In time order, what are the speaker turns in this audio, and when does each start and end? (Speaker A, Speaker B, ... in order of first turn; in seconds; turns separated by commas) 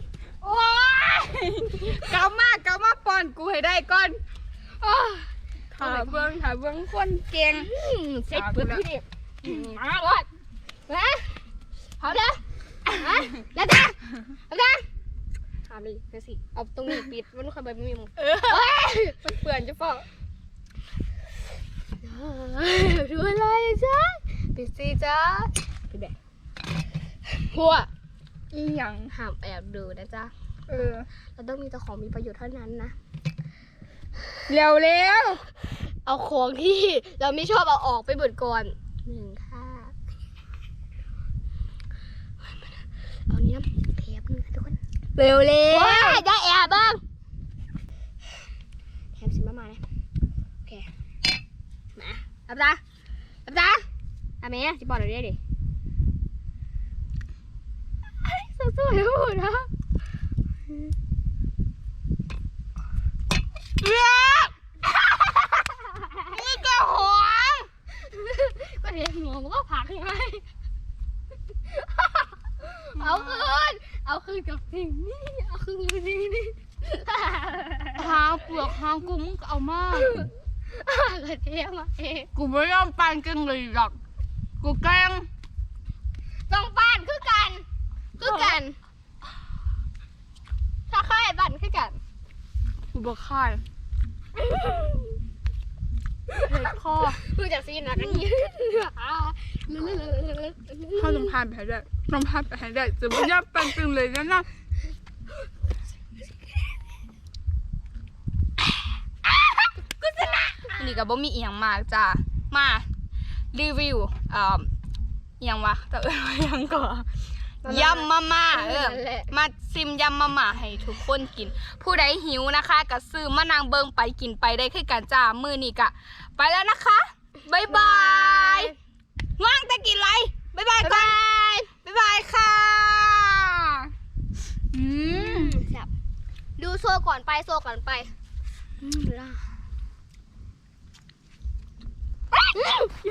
Speaker A: 0.4-4.2, Speaker B: 4.8-6.3, Speaker A: 5.7-7.7, Speaker B: 7.5-9.6, Speaker A: 8.3-8.8, Speaker A: 9.4-10.3, Speaker B: 10.9-11.4, Speaker B: 12.0-14.8, Speaker B: 15.7-19.2, Speaker A: 18.2-20.1, Speaker B: 22.0-26.1, Speaker B: 27.3-27.9, Speaker A: 28.5-29.1, Speaker B: 29.1-30.3, Speaker A: 30.7-31.1, Speaker B: 31.4-33.0, Speaker A: 34.5-35.4, Speaker B: 36.0-40.0, Speaker B: 42.4-42.8, Speaker B: 43.3-44.8, Speaker A: 45.2-46.2, Speaker B: 45.7-47.0, Speaker B: 49.2-49.8, Speaker B: 52.0-52.8, Speaker B: 53.5-53.8, Speaker B: 54.4-55.4, Speaker B: 58.2-59.7, Speaker A: 63.8-64.5, Speaker B: 65.1-66.4, Speaker A: 66.3-67.7, Speaker B: 68.0-70.5, Speaker B: 71.7-78.1, Speaker A: 73.0-73.5, Speaker A: 78.0-80.2, Speaker B: 80.0-82.3, Speaker A: 82.3-84.0, Speaker A: 84.6-85.3, Speaker B: 86.5-87.7, Speaker B: 88.2-88.8, Speaker A: 88.2-88.6, Speaker B: 90.9-92.0, Speaker A: 92.9-93.6, Speaker B: 94.4-95.2, Speaker B: 96.4-101.3, Speaker A: 96.4-97.2, Speaker A: 98.0-98.2, Speaker A: 101.0-104.5, Speaker B: 109.9-110.8, Speaker A: 110.2-112.9, Speaker A: 113.5-114.7, Speaker A: 115.4-117.1, Speaker B: 117.6-119.3, Speaker A: 117.6-128.7, Speaker B: 127.7-128.7, Speaker A: 129.4-131.2, Speaker B: 130.8-131.7, Speaker A: 131.8-133.9, Speaker A: 134.7-135.6, Speaker B: 135.0-135.9, Speaker B: 136.6-138.1, Speaker B: 138.8-139.4, Speaker B: 142.5-142.9